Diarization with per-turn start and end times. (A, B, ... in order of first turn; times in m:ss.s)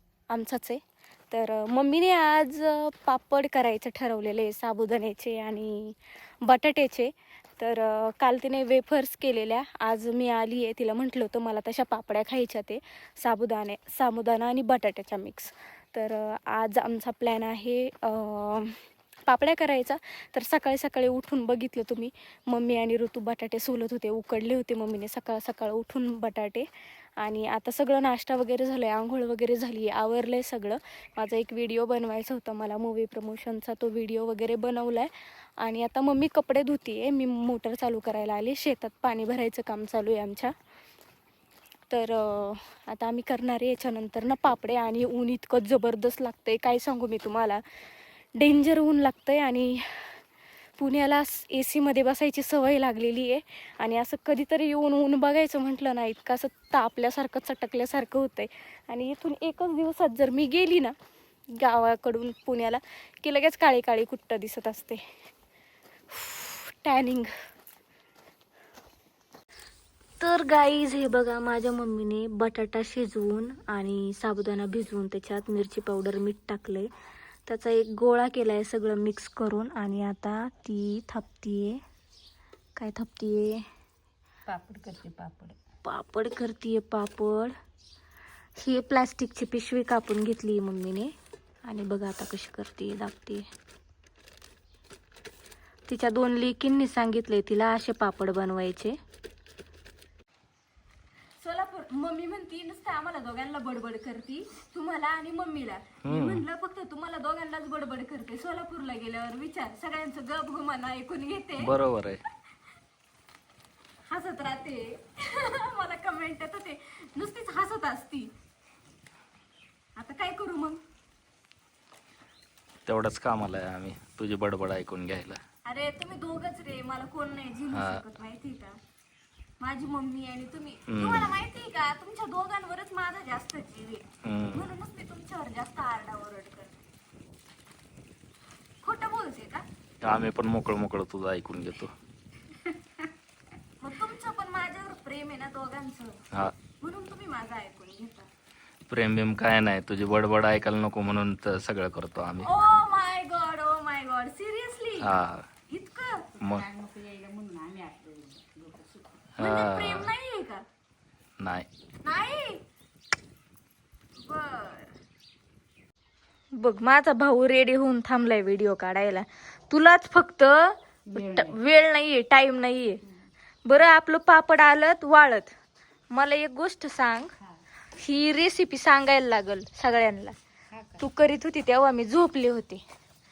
0:00.3-0:26.7 A
0:27.2-0:40.5 A
0:41.9-0:47.6 A
0:48.4-0:50.2 A
0:50.8-1:00.9 A
1:01.5-1:05.0 A
1:06.1-1:07.3 A
1:10.2-1:16.9 A
1:17.5-1:21.8 A
1:22.8-1:23.6 A
1:24.5-1:25.6 B
1:25.8-1:27.5 A
1:28.6-1:31.1 A
1:31.6-1:33.4 A
1:35.9-1:39.0 A
1:41.4-1:51.7 A
1:46.0-1:46.5 C
1:51.6-1:52.2 C
1:54.1-1:58.3 A
2:00.0-2:00.8 A
2:02.9-2:05.4 C
2:05.7-2:08.8 A
2:07.7-2:08.0 C
2:09.6-2:16.8 A
2:10.9-2:11.4 C
2:14.2-2:14.7 C
2:18.8-2:19.6 A
2:20.0-2:21.9 C
2:23.8-2:26.2 A
2:26.8-2:28.3 A
2:28.9-2:32.5 C
2:32.4-2:35.1 A
2:35.0-2:35.5 C
2:35.7-2:36.3 A
2:36.4-2:39.2 B
2:36.4-2:36.7 C
2:39.4-2:40.2 C
2:39.4-2:40.6 A
2:41.4-2:41.7 C
2:42.0-2:42.6 A
2:44.2-2:44.9 A
2:46.6-2:53.0 A
2:51.1-2:51.6 B
2:53.6-2:55.5 A
2:56.1-2:57.3 A
2:58.0-3:00.4 A
3:00.7-3:01.1 B
3:01.0-3:02.8 A